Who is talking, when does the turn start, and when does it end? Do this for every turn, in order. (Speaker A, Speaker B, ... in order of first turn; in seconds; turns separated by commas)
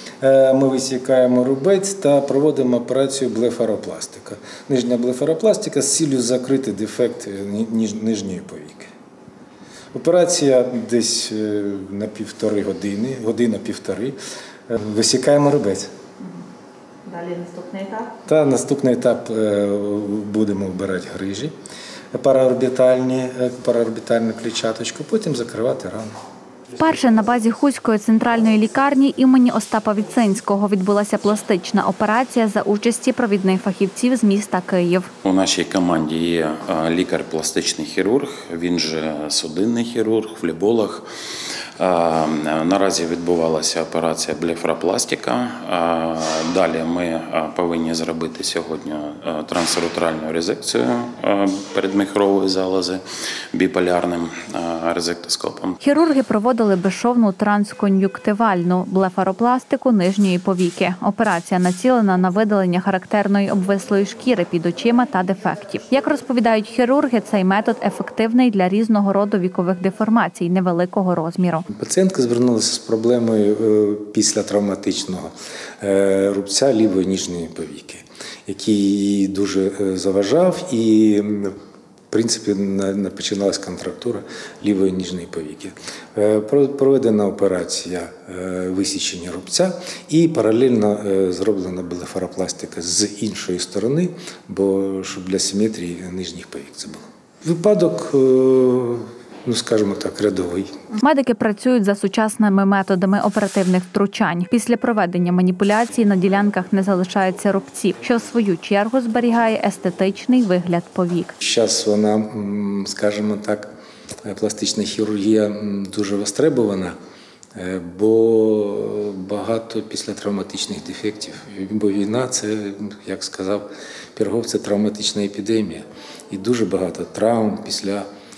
Speaker A: 0.2-8.9, Speaker A: 9.9-14.2, Speaker A: 14.7-15.9, Speaker B: 17.1-18.1, Speaker A: 18.2-21.5, Speaker A: 22.1-26.1, Speaker B: 26.8-35.1, Speaker C: 35.2-41.1, Speaker C: 41.8-55.8, Speaker B: 55.8-71.6, Speaker A: 71.7-81.5, Speaker A: 82.1-100.7, Speaker B: 100.9-111.3, Speaker A: 111.4-113.7, Speaker A: 114.2-116.9, Speaker A: 117.5-128.1